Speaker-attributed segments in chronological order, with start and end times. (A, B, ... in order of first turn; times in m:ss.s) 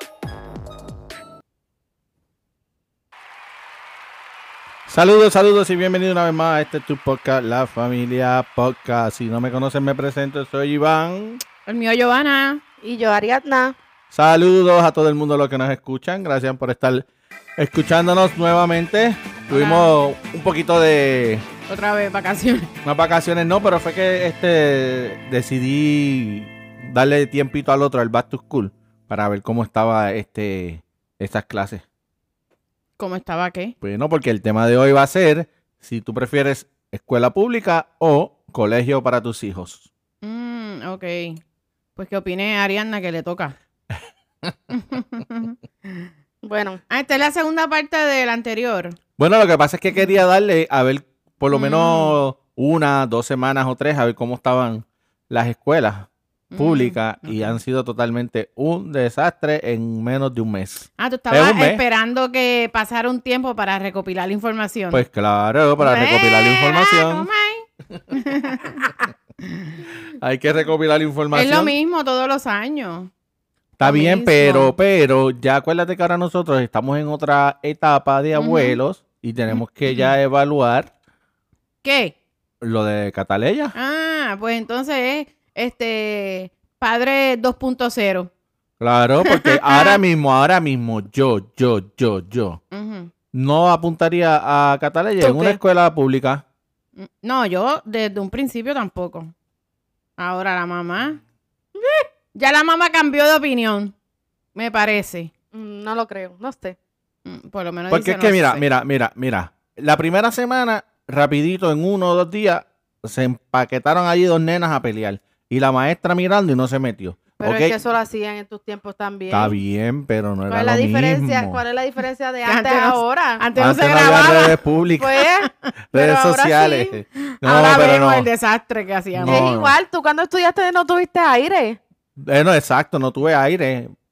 0:04.9-0:11.4 A
0:11.7-0:12.6 B
0:12.8-0:13.8 C
0:14.1-0:17.1 A
0:17.6-0:21.4 A
0:19.5-0:19.9 B
0:21.7-0:22.7 B
0:22.8-0:31.8 A
0:33.0-0:33.8 B
0:33.8-0:39.9 A
0:40.2-0:41.4 B
0:42.0-0:43.6 B
0:44.7-0:46.1 B
0:46.4-0:46.8 C
0:46.9-0:49.0 B
0:49.2-1:01.8 A
0:51.5-0:52.2 B
0:56.5-0:57.6 B
1:01.0-1:05.0 B
1:04.9-1:07.3 A
1:05.9-1:09.8 B
1:05.9-1:06.2 C
1:10.2-1:11.8 A
1:11.3-1:13.1 B
1:13.8-1:20.9 A
1:13.8-1:14.7 B
1:18.4-1:18.8 B
1:19.5-1:20.1 B
1:21.8-1:22.2 B
1:22.6-1:23.8 A
1:23.8-1:28.3 B
1:28.8-1:32.6 A
1:29.2-1:30.0 B
1:32.7-1:33.1 B
1:33.3-1:36.4 A
1:35.2-1:35.6 C
1:37.0-1:39.3 B
1:40.2-1:41.2 B
1:41.8-1:42.1 C
1:42.4-1:43.9 B
1:44.6-1:45.3 B
1:45.5-1:46.8 C
1:47.2-1:48.6 B
1:47.9-1:57.8 A
1:57.4-1:59.6 C
1:59.3-2:01.6 A
2:00.5-2:07.0 C
2:02.4-2:04.6 B
2:03.6-2:05.2 A
2:05.9-2:08.3 A
2:07.3-2:09.5 B
2:07.6-2:07.9 C
2:09.1-2:09.7 A
2:09.3-2:11.8 C
2:12.2-2:13.9 A